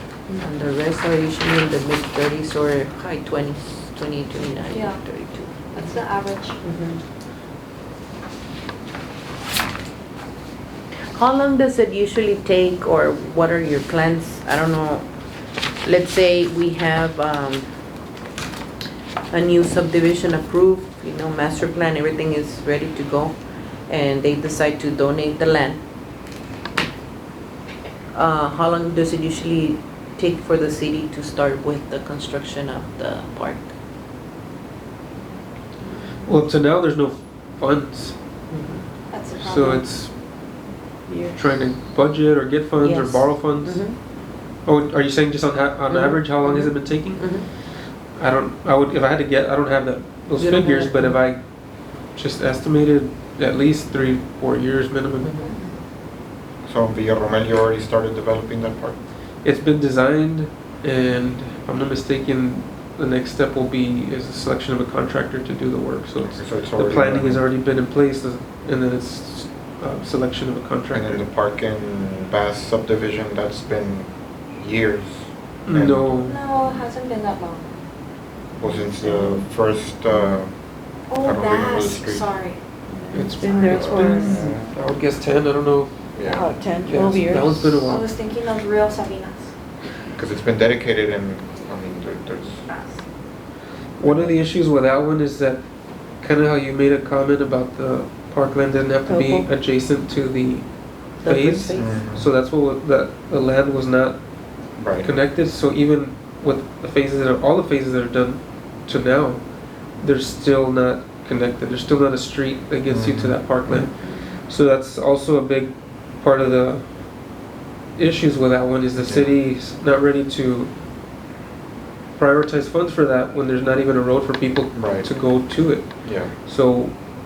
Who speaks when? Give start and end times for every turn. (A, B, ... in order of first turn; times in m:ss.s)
0:00.4-0:05.9 A
0:04.7-0:05.0 B
0:05.7-0:06.6 B
0:06.6-0:07.0 A
0:11.1-0:15.1 A
0:15.8-0:17.7 A
0:19.3-0:25.8 A
0:28.1-0:33.7 A
0:36.2-0:38.2 C
0:38.5-0:38.8 A
0:39.1-0:39.8 B
0:39.4-0:40.1 C
0:41.1-0:41.5 D
0:41.4-0:44.1 C
0:42.8-0:44.0 A
0:44.6-0:47.4 C
0:45.9-0:47.5 A
0:48.1-0:51.4 C
0:50.4-0:51.2 A
0:52.0-0:55.3 C
0:55.2-0:55.6 A
0:56.6-0:59.0 E
0:59.4-1:11.2 C
1:06.3-1:07.5 E
1:10.9-1:16.3 E
1:15.6-1:16.4 C
1:16.3-1:17.7 B
1:18.6-1:20.6 E
1:19.1-1:19.4 D
1:21.1-1:22.6 B
1:21.2-1:22.3 E
1:22.9-1:24.6 D
1:23.1-1:25.9 C
1:23.7-1:24.7 E
1:26.1-1:26.5 E
1:26.2-1:27.9 D
1:26.8-1:28.1 C
1:27.8-1:29.5 B
1:30.2-1:32.6 E
1:32.7-1:33.0 B
1:34.0-1:35.6 C
1:36.2-1:44.2 C
1:39.0-1:39.5 D
1:41.2-1:41.9 A
1:41.8-1:42.3 E
1:44.8-1:45.1 E
1:44.9-1:49.4 C
1:50.0-1:56.9 C
1:52.9-1:53.8 E
1:57.9-2:00.7 C
1:59.0-1:59.4 E
2:02.2-2:07.0 C
2:04.7-2:05.1 E
2:06.0-2:06.3 E